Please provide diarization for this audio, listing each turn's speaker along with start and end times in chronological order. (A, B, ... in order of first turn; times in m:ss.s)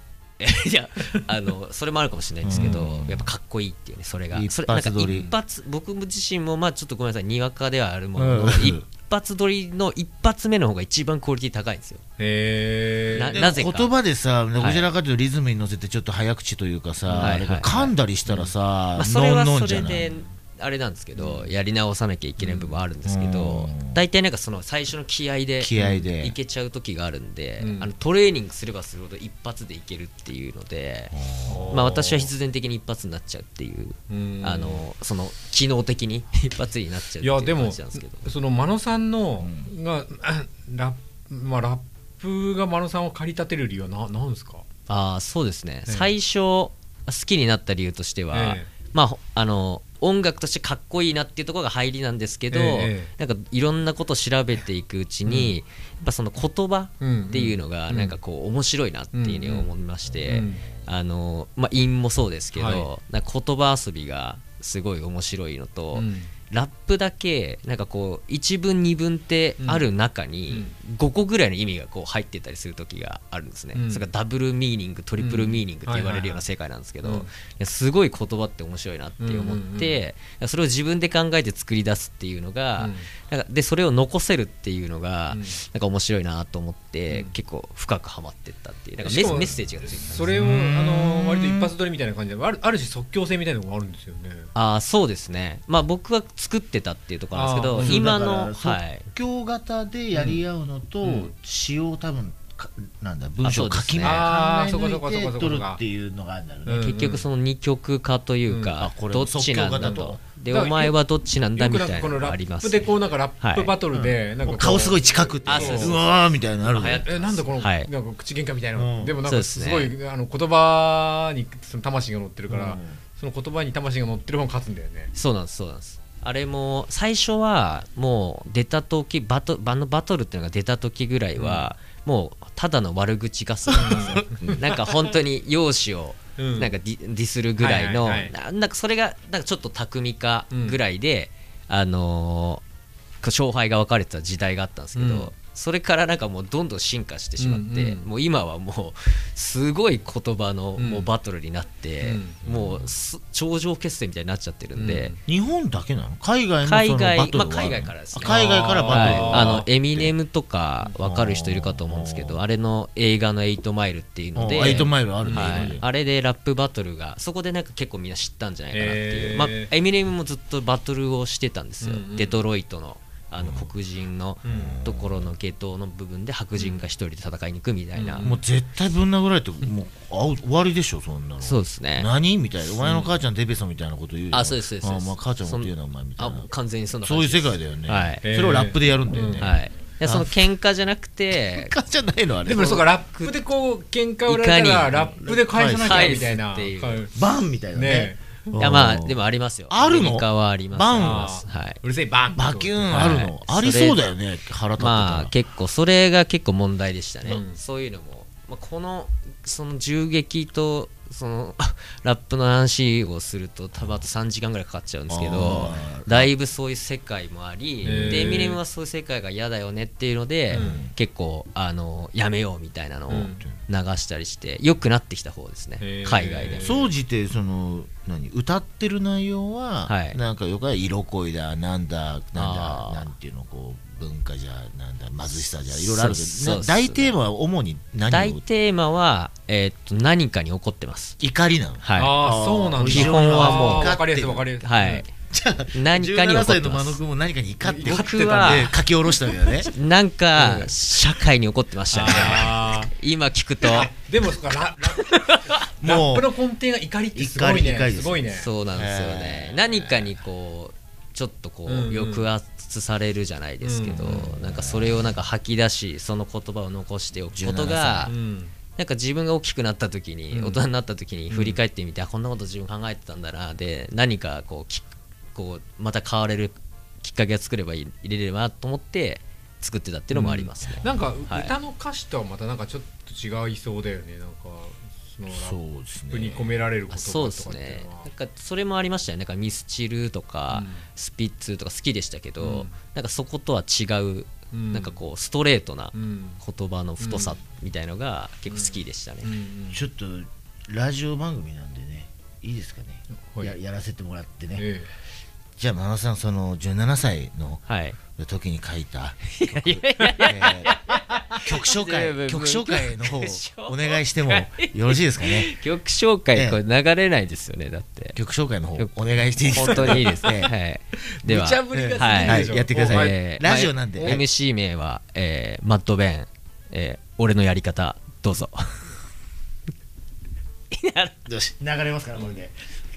0:00.4-0:12.0 A
0:02.4-0:03.3 B
0:04.3-0:05.3 B
0:08.1-0:08.8 B
0:12.2-0:13.4 C
0:13.1-0:13.9 A
0:13.3-0:20.0 B
0:14.6-0:14.9 A
0:17.0-0:17.4 C
0:17.2-0:17.9 A
0:18.2-0:18.5 C
0:18.9-0:31.2 A
0:19.7-0:20.3 C
0:21.2-0:21.5 C
0:22.4-0:22.8 C
0:23.0-0:24.0 B
0:25.6-0:26.4 B
0:25.8-0:26.1 C
0:27.6-0:27.9 C
0:31.1-0:31.9 B
0:31.4-0:32.3 C
0:31.7-0:38.2 A
0:34.1-0:34.8 C
0:37.2-0:44.6 C
0:39.4-0:39.7 B
0:44.9-1:30.4 A
0:45.9-0:46.1 C
0:48.3-0:48.7 C
0:52.5-0:53.1 C
0:55.2-0:55.6 C
0:57.0-0:58.2 C
0:59.1-0:59.7 C
1:00.0-1:00.9 B
1:00.3-1:00.6 C
1:02.5-1:02.9 C
1:05.9-1:06.3 C
1:09.6-1:09.9 C
1:10.5-1:10.7 C
1:13.7-1:14.1 C
1:15.2-1:16.4 C
1:17.0-1:17.3 C
1:19.2-1:20.0 C
1:22.8-1:23.1 C
1:25.3-1:25.6 C
1:27.1-1:27.3 C
1:29.0-1:34.5 C
1:29.3-1:29.6 B
1:30.2-1:31.7 B
1:34.5-1:39.1 A
1:37.3-1:38.0 C
1:37.8-1:46.8 B
1:40.1-1:40.4 C
1:41.0-1:41.3 C
1:43.4-1:44.3 A
1:44.0-1:45.8 C
1:46.6-1:47.3 C
1:46.8-1:53.7 A
1:48.5-1:48.8 C
1:48.8-1:50.2 B
1:49.8-1:50.9 C
1:51.5-1:56.0 C
1:53.9-1:57.1 B
1:55.4-1:57.9 A
1:57.0-2:05.1 C
1:58.7-1:59.2 B
1:59.2-1:59.9 A
2:02.5-2:03.0 B
2:05.1-2:22.6 A
2:11.4-2:11.7 C
2:13.7-2:15.1 B
2:13.7-2:14.4 C
2:16.4-2:16.7 C
2:17.6-2:18.3 C
2:20.5-2:20.8 C
2:23.2-2:35.1 A
2:24.9-2:25.3 C
2:27.4-2:28.1 C
2:30.8-2:31.1 C
2:32.0-2:32.4 C
2:32.4-2:32.9 B
2:34.8-2:35.2 C
2:35.2-2:40.1 B
2:36.6-2:58.3 A
2:38.2-2:39.7 C
2:41.0-2:42.4 B
2:44.4-2:45.8 B
2:44.5-2:45.8 C
2:48.7-2:49.7 C
2:51.8-2:52.4 C
2:53.4-2:53.7 B
2:54.4-2:54.8 C
2:54.4-2:55.3 B
2:56.6-2:56.8 C
2:57.9-2:58.4 C
2:58.2-3:06.5 B
3:01.4-3:02.1 A
3:02.8-3:03.1 A
3:04.3-3:08.2 A
3:07.0-3:10.4 B
3:08.2-3:09.6 C
3:09.4-3:11.7 A
3:11.3-3:12.8 B
3:12.4-3:17.2 C
3:12.5-3:13.4 A
3:14.2-3:15.2 A
3:15.2-3:16.3 B
3:15.7-3:17.0 A
3:17.1-3:21.4 B
3:17.7-3:18.6 C
3:18.6-3:21.8 A
3:21.0-3:23.2 C
3:22.3-3:25.3 B
3:22.9-3:24.0 A
3:24.8-3:46.7 A
3:27.2-3:27.6 C
3:33.8-3:34.0 B
3:35.1-3:36.3 B
3:35.4-3:35.9 C
3:37.8-3:38.6 C
3:37.8-3:38.3 B
3:40.5-3:40.9 B
3:40.5-3:40.8 C
3:43.1-3:43.4 C
3:45.8-3:46.9 C
3:46.6-3:58.4 B
3:49.8-3:50.2 A
3:52.3-3:53.1 A
3:55.7-3:57.2 A
3:58.1-4:01.2 A
4:01.2-4:04.5 B
4:01.8-4:02.2 A
4:01.9-4:05.1 C
4:02.8-4:04.0 A
4:04.6-4:05.1 A
4:05.3-4:09.7 B
4:05.7-4:07.0 A
4:07.6-4:09.7 C
4:07.8-4:08.7 A
4:09.7-4:13.9 A
4:10.3-4:10.8 C
4:11.9-4:12.9 C
4:13.6-4:18.5 C
4:14.9-4:15.6 A
4:15.8-4:16.3 B
4:17.1-4:20.2 B
4:18.3-4:28.1 A
4:21.7-4:22.3 C
4:23.6-4:24.4 C
4:24.3-4:25.2 B
4:27.3-4:28.1 B
4:28.1-4:28.5 C
4:28.8-4:41.5 A
4:30.3-4:30.6 C
4:31.3-4:31.6 C
4:40.1-4:48.1 C
4:40.6-4:40.9 B
4:45.3-4:46.6 B
4:46.9-4:59.3 A
4:50.5-4:50.8 C
4:52.4-4:52.7 C
4:54.5-4:55.0 C
4:55.9-4:56.4 C
4:57.0-4:57.4 C
4:58.5-4:59.8 C
4:59.7-5:04.7 B
5:03.3-5:03.6 C
5:04.6-5:04.9 C
5:05.6-5:07.6 B
5:07.6-5:08.0 A
5:08.2-5:15.5 B
5:09.3-5:18.2 A
5:16.3-5:16.6 B
5:18.1-5:20.5 B
5:18.8-5:28.9 A
5:19.6-5:20.3 C
5:21.2-5:24.2 C
5:21.7-5:24.2 B
5:30.7-5:31.2 A
5:31.2-5:32.5 B